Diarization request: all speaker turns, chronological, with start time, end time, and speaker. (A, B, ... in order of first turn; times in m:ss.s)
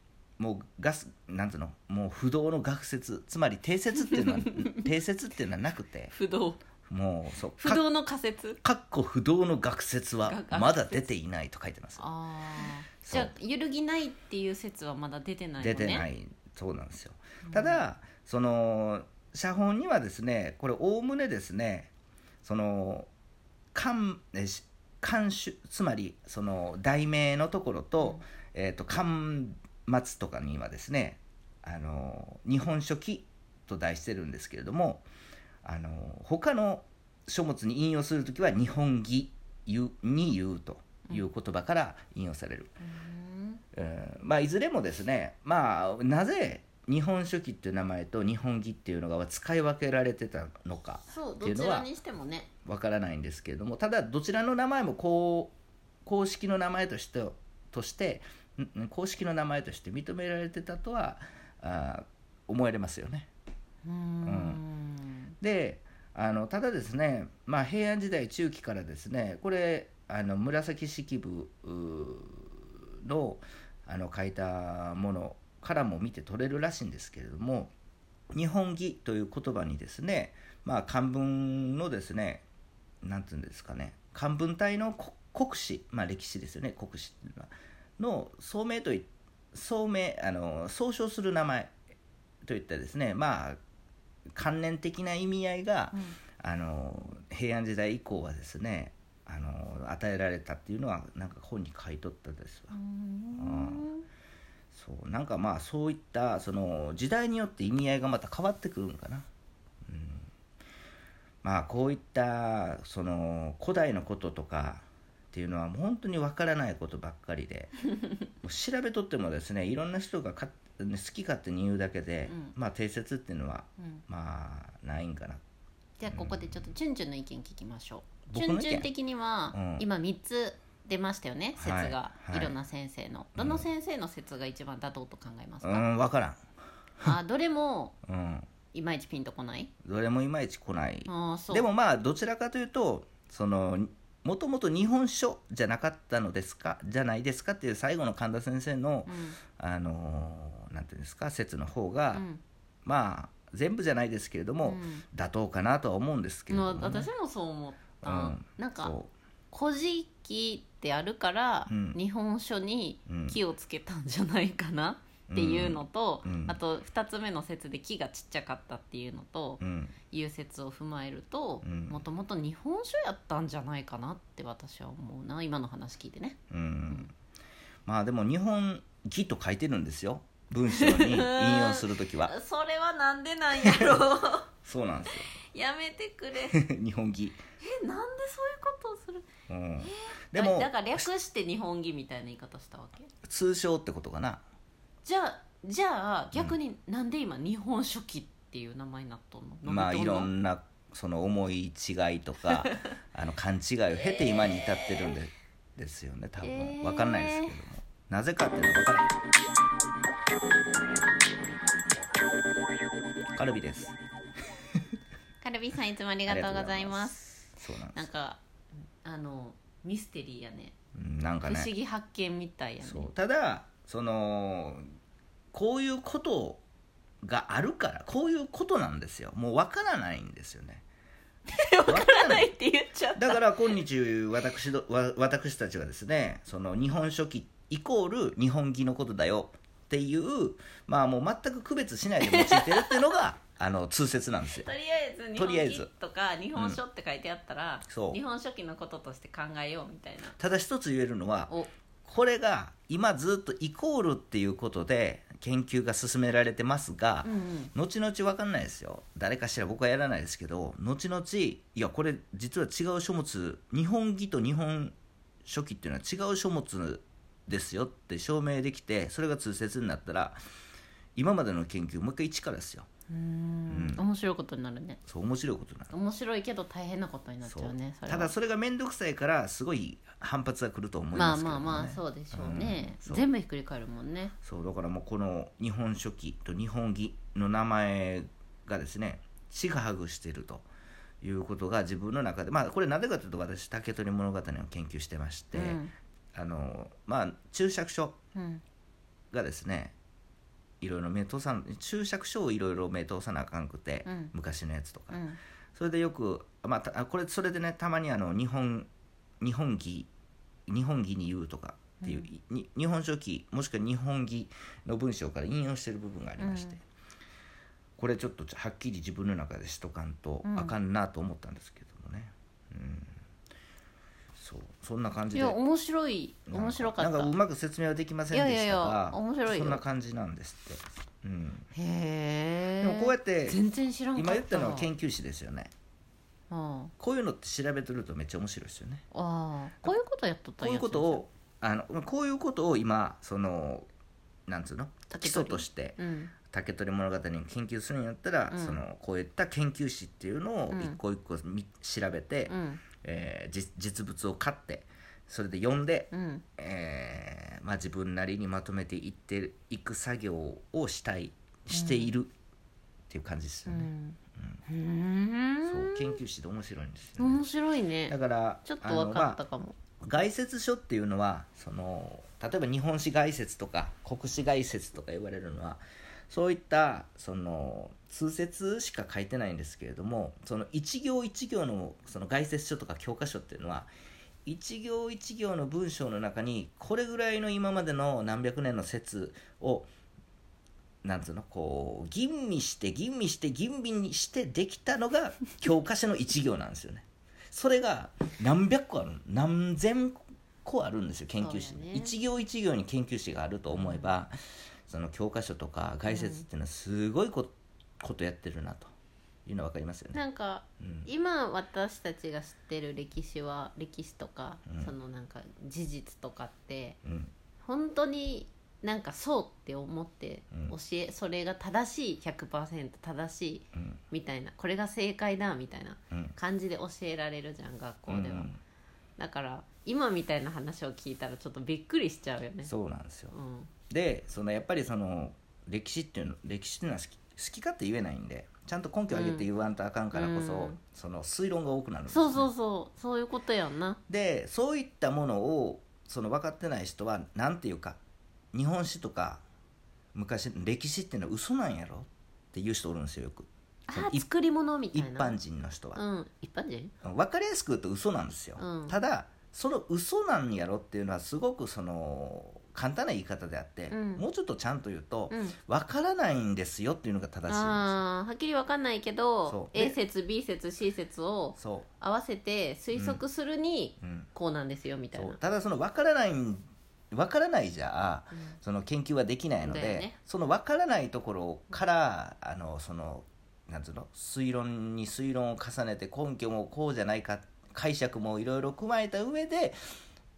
0:00.4-0:06.1 A
0:04.1-0:04.9 B
0:06.1-0:06.6 B
0:06.9-0:07.8 A
0:07.6-0:08.6 B
0:08.6-0:12.0 A
0:10.3-0:11.1 B
0:12.0-0:16.1 B
0:13.0-0:13.3 A
0:15.6-0:21.9 A
0:17.4-0:17.8 B
0:22.4-0:23.1 A
0:23.7-0:35.0 A
0:35.6-0:42.7 A
0:42.8-0:43.6 B
0:43.7-0:51.9 A
0:51.1-0:52.5 B
0:52.6-0:55.5 A
0:56.0-1:03.3 A
1:03.8-1:05.3 B
1:04.2-1:04.6 A
1:05.4-1:17.7 A
1:18.3-1:22.4 A
1:23.0-1:31.7 A
1:32.4-1:33.6 A
1:34.4-1:42.7 A
1:35.9-1:36.2 B
1:42.7-1:44.1 B
1:43.4-1:43.9 A
1:44.7-1:49.3 A
1:49.9-1:50.3 A
1:51.4-1:57.8 A
1:58.4-2:05.4 A
2:02.3-2:02.5 B
2:06.0-2:15.9 B
2:06.1-2:06.7 A
2:08.3-2:08.9 A
2:09.5-2:09.9 A
2:11.6-2:12.5 A
2:13.4-2:13.7 A
2:15.6-2:16.4 A
2:17.0-2:18.0 B
2:18.0-2:18.5 A
2:18.7-2:19.7 B
2:19.8-2:32.2 A
2:21.1-2:21.7 B
2:29.1-2:29.4 B
2:32.1-2:32.4 B
2:32.8-2:37.1 A
2:34.6-2:35.0 B
2:36.5-2:39.0 B
2:38.0-2:39.1 A
2:39.5-2:56.4 B
2:41.7-2:42.0 A
2:43.1-2:43.4 A
2:45.3-2:46.6 A
2:49.6-2:50.0 A
2:51.6-2:52.0 A
2:56.5-2:57.1 A
2:57.9-3:02.3 A
3:00.7-3:04.5 B
3:03.6-3:04.0 A
3:04.6-3:05.3 A
3:05.3-3:06.6 B
3:06.5-3:07.4 A
3:07.6-3:09.3 B
3:09.5-3:11.1 A
3:09.8-3:13.1 B
3:13.2-3:14.4 A
3:15.0-3:20.3 B
3:19.7-3:29.1 A
3:26.4-3:27.5 B
3:33.4-3:34.0 A
3:35.4-3:38.4 B
3:36.3-3:38.1 A
3:39.0-3:40.8 B
3:41.0-3:41.7 A
3:41.4-3:43.1 B
3:42.8-3:44.9 A
3:45.5-3:46.6 A
3:47.2-3:50.8 A
3:51.5-3:53.8 B
3:51.9-3:52.5 A
3:53.2-4:04.7 A
4:02.2-4:03.0 B
4:04.5-4:10.4 B
4:05.4-4:05.9 A
4:06.6-4:06.8 A
4:07.9-4:08.2 A
4:10.4-4:11.5 A
4:12.0-4:30.4 A
4:17.2-4:17.7 B
4:31.2-4:32.9 A
4:33.1-4:35.0 B
4:33.7-4:34.1 A
4:35.1-4:35.9 A
4:35.9-4:38.3 B
4:37.4-4:43.3 A
4:41.1-4:44.4 B
4:44.4-4:50.7 A
4:51.2-4:55.8 A
4:55.5-4:55.9 B
4:56.3-4:58.2 A
4:58.4-4:58.6 B
4:59.3-5:00.0 A
5:00.8-5:05.2 A
5:04.0-5:04.3 B
5:05.1-5:05.4 B
5:05.8-5:08.9 A
5:09.4-5:10.1 A
5:10.7-5:16.8 A
5:12.0-5:12.3 B
5:16.4-5:16.8 B
5:18.0-5:23.2 A
5:20.4-5:20.8 B
5:24.4-5:25.6 A
5:25.3-5:27.3 B
5:26.5-5:31.7 A
5:28.3-5:29.8 B
5:31.7-5:34.9 B
5:32.8-5:33.6 A
5:34.2-5:35.7 A
5:36.5-5:36.9 B
5:37.0-5:39.0 A
5:39.1-5:41.2 B
5:40.6-5:43.9 A
5:44.5-5:46.0 A
5:45.1-5:46.3 B
5:46.5-6:02.3 A
5:48.5-5:48.8 B
5:50.7-5:51.0 B
5:52.5-5:52.8 B
5:56.1-5:56.4 B
6:01.7-6:02.1 B
6:03.1-6:04.6 A
6:03.7-6:06.2 B
6:05.6-6:07.5 A
6:07.2-6:09.8 B
6:08.1-6:09.4 A
6:10.0-6:23.9 A
6:24.5-6:29.9 A
6:31.0-6:44.3 A
6:41.4-6:42.1 B
6:43.7-6:44.1 B
6:44.9-6:48.9 A
6:46.1-6:46.4 B
6:49.5-6:50.2 A
6:50.1-6:57.0 B
6:50.8-6:51.1 A
6:57.0-6:57.3 A
6:57.6-7:08.5 B
7:08.1-7:08.6 A
7:09.2-7:12.7 B
7:12.6-7:13.4 A
7:13.3-7:13.7 B
7:13.9-7:22.5 A
7:19.1-7:19.5 B
7:20.1-7:20.8 B
7:22.1-7:24.0 B
7:24.1-7:28.0 A
7:28.5-7:29.4 A
7:30.1-7:34.3 A
7:33.9-7:35.4 B
7:34.9-7:36.0 A
7:36.0-7:36.9 B
7:37.0-7:48.0 A
7:38.6-7:39.0 B
7:43.9-7:44.2 B
7:45.3-7:45.6 B
7:47.5-7:55.4 B
7:49.5-7:50.0 A
7:51.6-7:51.9 A
7:52.9-7:53.2 A
7:54.0-7:54.3 A
7:55.1-8:09.8 A
7:59.6-8:00.2 B